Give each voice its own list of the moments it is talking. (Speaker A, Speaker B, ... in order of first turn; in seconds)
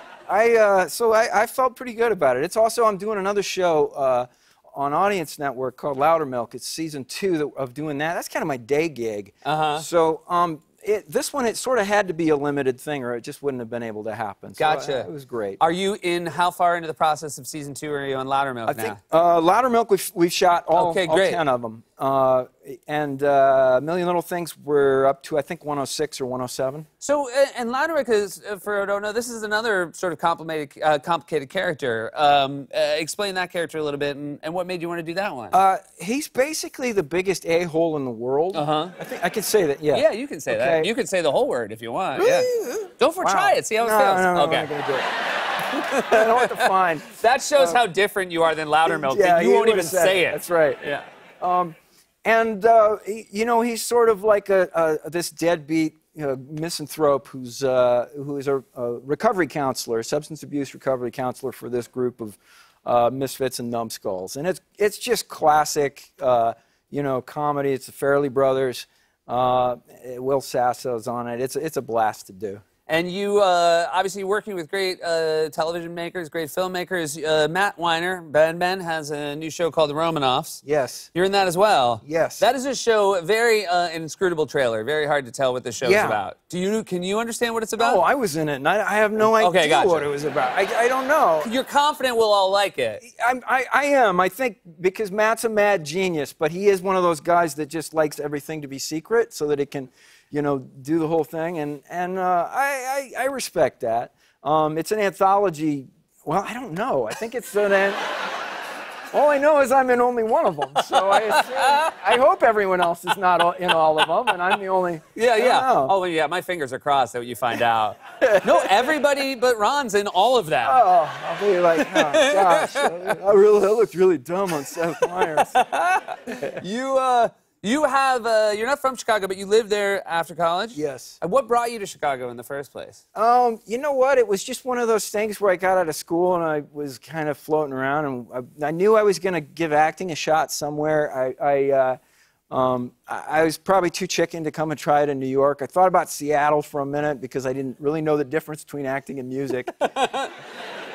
Speaker A: 0.3-15.6, 18.7-26.9, 35.5-40.9, 42.1-45.1, 46.0-47.8, 48.9-50.8, 51.4-72.6, 80.6-81.1, 82.0-82.5, 85.8-86.2, 87.8-91.5, 93.0-108.0, 109.1-116.0, 118.2-118.9, 120.6-125.6, 130.8-131.2, 133.2-142.0, 142.5-149.7
Speaker B: 9.4-9.8, 14.6-19.0, 20.7-21.4, 27.0-35.6, 38.5-39.0, 39.9-44.7, 45.5-51.0, 72.9-80.6, 81.1-88.0, 89.2-90.1, 91.4-93.0, 110.8-111.9, 115.2-120.8, 121.8-123.2, 125.0-133.0, 149.8-150.3